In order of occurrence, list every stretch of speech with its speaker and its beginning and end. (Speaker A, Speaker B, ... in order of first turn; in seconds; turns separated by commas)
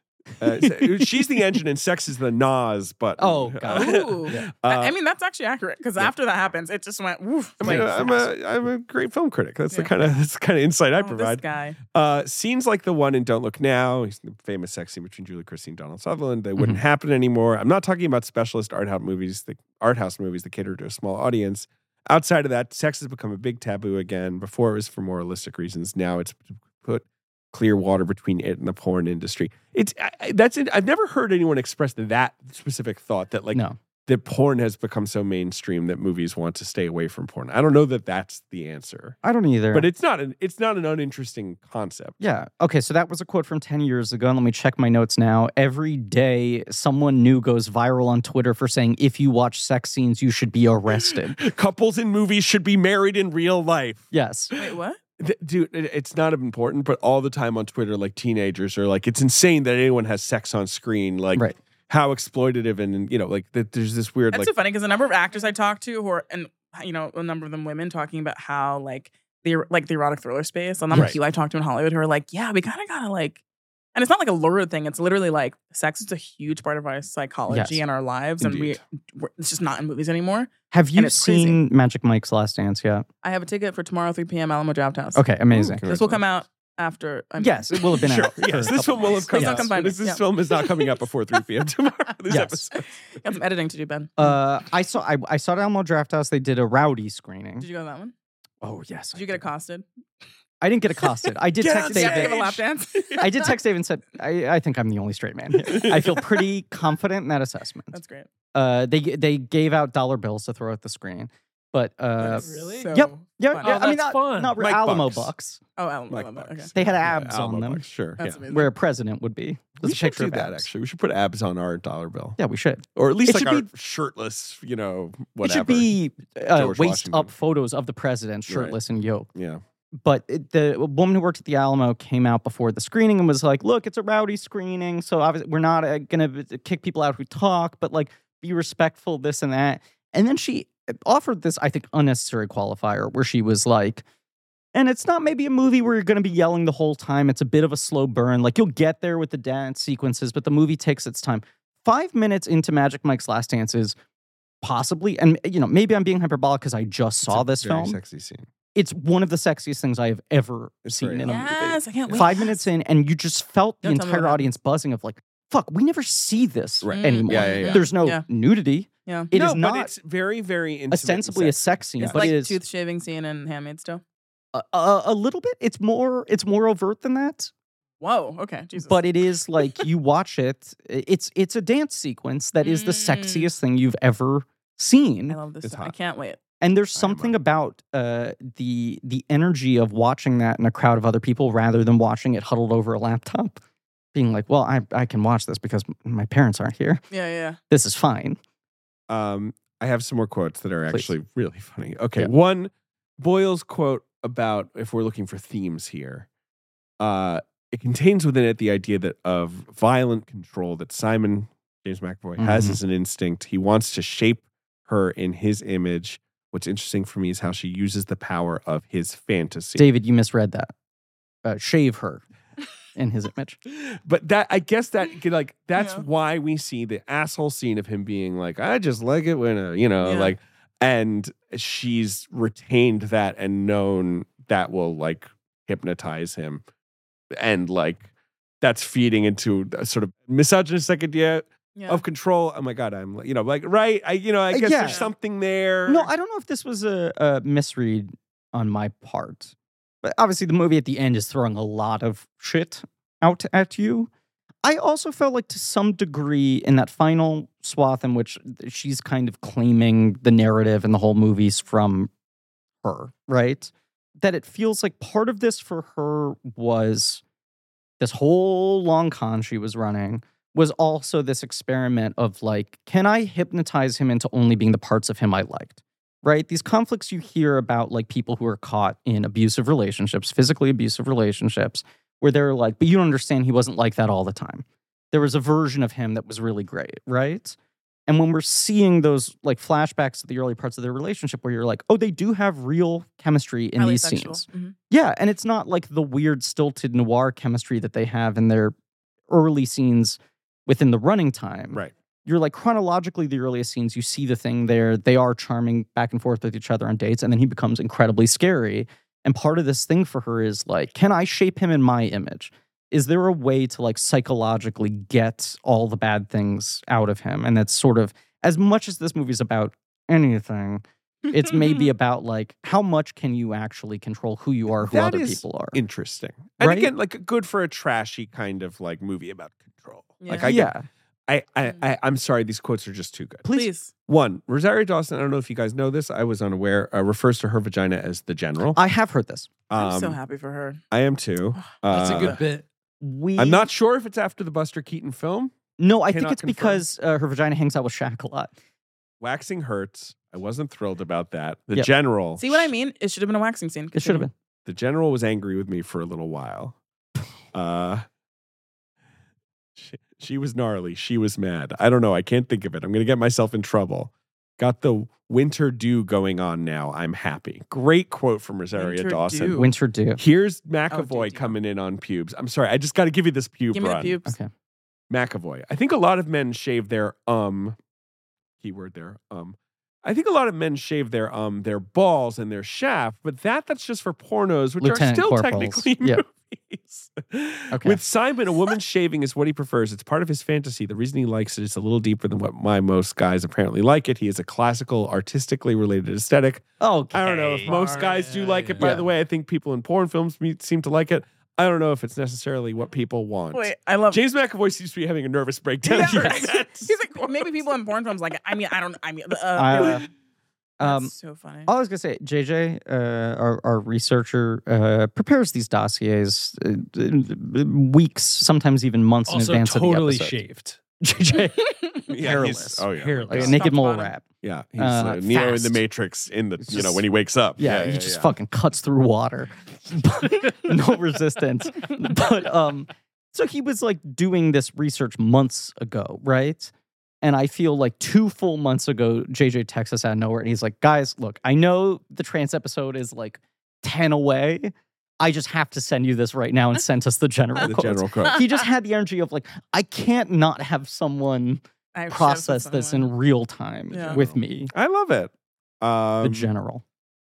Speaker A: 0.4-4.9, Speaker B: 0.5-1.1, Speaker B: 3.2-4.5, Speaker C: 3.7-8.1, Speaker A: 7.6-39.2, Speaker B: 7.6-8.3, Speaker C: 10.9-11.8, Speaker B: 16.6-16.8, Speaker B: 39.2-39.9, Speaker A: 39.7-42.2, Speaker B: 42.2-51.4, Speaker A: 50.9-64.5, Speaker B: 54.1-54.5, Speaker C: 54.5-55.0, Speaker C: 64.3-73.4, Speaker A: 70.9-71.2, Speaker C: 73.9-81.6, Speaker B: 77.5-77.8, Speaker A: 78.4-78.8, Speaker B: 80.7-83.0, Speaker C: 83.2-85.3, Speaker B: 85.1-85.8, Speaker A: 85.5-86.2, Speaker C: 85.8-88.3, Speaker B: 87.4-89.7, Speaker A: 87.9-92.9, Speaker C: 89.0-90.9, Speaker B: 92.3-92.6, Speaker C: 92.8-94.1, Speaker B: 94.2-97.7, Speaker C: 97.6-98.1, Speaker B: 98.6-99.4, Speaker C: 99.1-99.8, Speaker B: 100.6-102.4, Speaker A: 101.6-103.3, Speaker C: 101.8-103.5, Speaker B: 103.2-108.0, Speaker A: 105.6-106.4, Speaker C: 107.9-108.3, Speaker B: 108.5-115.6, Speaker D: 112.2-112.9, Speaker C: 112.2-114.0, Speaker D: 113.6-114.6, Speaker A: 114.6-115.3, Speaker C: 115.8-116.7, Speaker A: 116.1-118.4, Speaker B: 116.7-117.8, Speaker C: 118.2-118.7, Speaker B: 118.4-120.7, Speaker A: 119.8-122.4, Speaker B: 122.4-123.7, Speaker A: 123.0-125.9, Speaker B: 125.4-129.3, Speaker A: 126.5-127.3, Speaker A: 128.5-128.8, Speaker A: 129.3-129.6, Speaker B: 130.0-144.0, Speaker B: 144.7-153.9, Speaker B: 154.6-158.0, Speaker A: 157.3-158.5, Speaker B: 158.7-169.9, Speaker A: 160.8-161.4, Speaker C: 161.2-162.6, Speaker C: 163.8-164.5, Speaker A: 166.8-167.9, Speaker C: 166.9-168.2, Speaker C: 169.0-169.3, Speaker A: 169.3-172.3, Speaker B: 170.9-172.6, Speaker C: 172.0-174.0, Speaker B: 174.5-177.5, Speaker C: 178.0-179.1, Speaker B: 178.8-185.4, Speaker C: 182.6-183.5, Speaker C: 185.3-186.4, Speaker A: 185.6-185.9, Speaker B: 186.6-193.6, Speaker A: 186.9-187.3, Speaker B: 194.1-197.0, Speaker C: 197.1-197.6, Speaker B: 197.7-198.4, Speaker A: 199.1-206.3, Speaker A: 207.0-219.8, Speaker B: 212.4-212.8, Speaker B: 219.8-220.7, Speaker B: 221.4-222.2, Speaker B: 222.9-223.6, Speaker A: 223.7-236.6, Speaker C: 225.8-226.0, Speaker C: 230.0-230.3, Speaker A: 237.3-238.1, Speaker A: 238.6-246.1, Speaker C: 241.7-242.0, Speaker B: 244.5-245.1, Speaker C: 244.8-245.1, Speaker B: 245.9-254.1, Speaker B: 254.6-262.1, Speaker B: 262.8-267.2, Speaker B: 268.0-287.6, Speaker B: 288.1-298.7, Speaker C: 293.8-294.7, Speaker B: 299.3-325.8, Speaker A: 324.8-330.7, Speaker B: 326.6-326.9, Speaker C: 330.2-330.5, Speaker B: 330.4-330.9, Speaker A: 331.3-333.5, Speaker B: 333.4-333.7, Speaker C: 333.5-333.9, Speaker A: 334.1-338.8, Speaker B: 338.7-339.5, Speaker A: 339.7-340.2, Speaker C: 339.8-340.8, Speaker A: 340.9-342.4, Speaker D: 341.9-342.6, Speaker B: 343.0-343.7, Speaker A: 343.4-345.5, Speaker B: 345.8-348.5, Speaker A: 346.1-346.8, Speaker A: 349.2-352.7, Speaker C: 352.4-354.3, Speaker B: 353.9-354.3, Speaker A: 354.6-356.8, Speaker A: 357.5-358.0, Speaker A: 359.8-374.2, Speaker C: 368.7-369.7, Speaker B: 369.6-370.2, Speaker C: 370.9-371.5, Speaker C: 373.7-374.4, Speaker B: 374.2-374.5, Speaker A: 375.1-377.8, Speaker A: 378.6-407.0, Speaker B: 384.8-386.2, Speaker B: 387.7-388.0, Speaker B: 396.8-397.4, Speaker D: 397.2-398.9, Speaker B: 398.8-399.1, Speaker C: 403.5-404.2, Speaker B: 405.9-406.4, Speaker C: 405.9-410.1, Speaker B: 409.6-410.0, Speaker B: 410.8-411.1, Speaker C: 410.8-411.7, Speaker B: 411.6-420.4, Speaker D: 419.3-420.8, Speaker B: 421.0-425.8, Speaker A: 422.1-423.6, Speaker D: 422.9-423.6, Speaker C: 423.4-424.1, Speaker A: 424.4-428.3, Speaker B: 426.6-427.0, Speaker B: 427.6-436.7, Speaker B: 437.2-454.7, Speaker A: 447.6-448.4, Speaker C: 451.9-453.1, Speaker C: 453.9-454.2, Speaker A: 454.1-456.5, Speaker B: 456.2-456.8